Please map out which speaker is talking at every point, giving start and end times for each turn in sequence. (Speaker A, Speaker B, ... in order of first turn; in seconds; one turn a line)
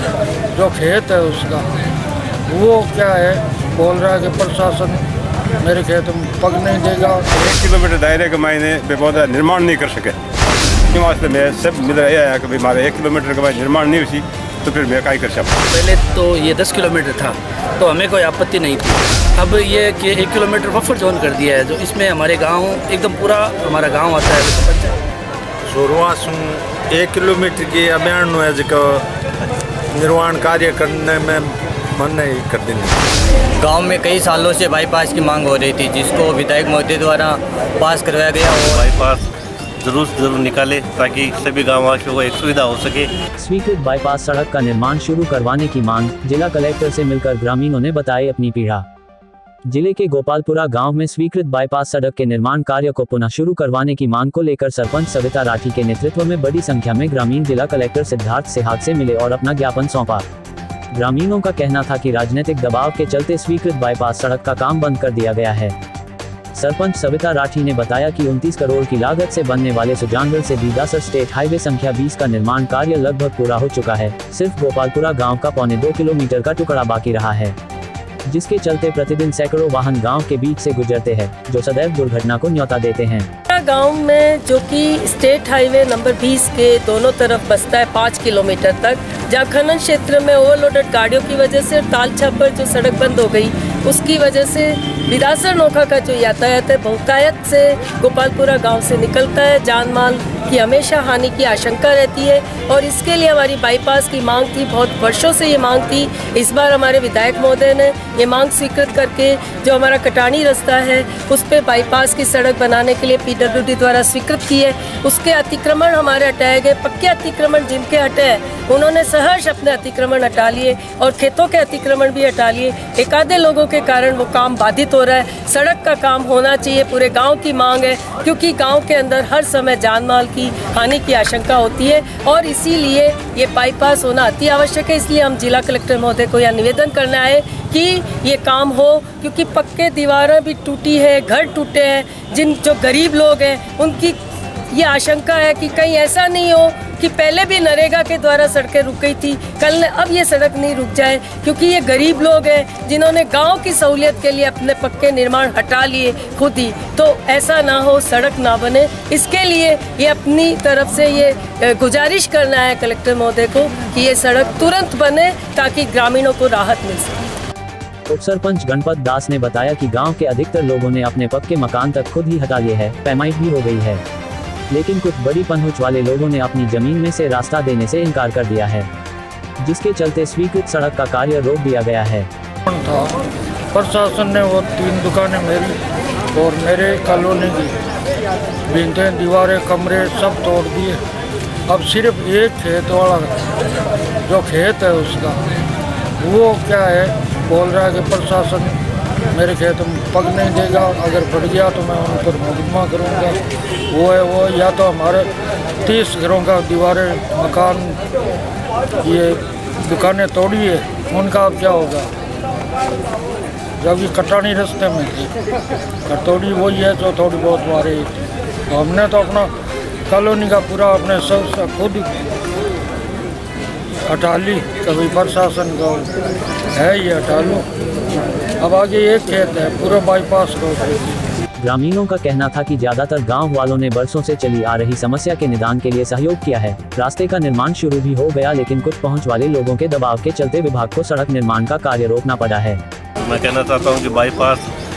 Speaker A: 0.6-1.6
Speaker A: 2.5-5.0
Speaker A: 5.6-7.2
Speaker B: 7.3-10.2
Speaker B: 10.9-15.5
Speaker C: 15.7-25.0
Speaker D: 25.7-29.0
Speaker D: 29.9-33.0
Speaker E: 33.6-38.9
Speaker F: 38.5-39.2
Speaker F: 39.8-43.1
Speaker G: 43.4-48.9
Speaker G: 49.7-60.2
Speaker G: 60.9-65.8
Speaker G: 66.5-77.6
Speaker G: 78.3-83.3
Speaker H: 83.5-144.2
Speaker H: 144.7-167.2
Speaker G: 168.1-174.0
Speaker G: 174.7-178.9
Speaker G: 179.6-182.3
Speaker A: 182.7-183.1
Speaker A: 183.7-185.7
Speaker A: 186.3-187.7
Speaker A: 188.7-191.0
Speaker A: 191.7-193.3
Speaker A: 194.3-195.4
Speaker A: 196.2-198.7
Speaker A: 199.3-203.4
Speaker A: 203.9-205.3
Speaker A: 205.8-208.0
Speaker A: 209.0-212.1
Speaker A: 213.8-215.3
Speaker A: 216.1-218.1
Speaker A: 218.7-219.5
Speaker A: 220.1-222.1
Speaker A: 224.1-226.1
Speaker A: 226.7-227.6
Speaker A: 228.6-231.0
Speaker G: 231.6-242.8
Speaker F: 243.2-244.6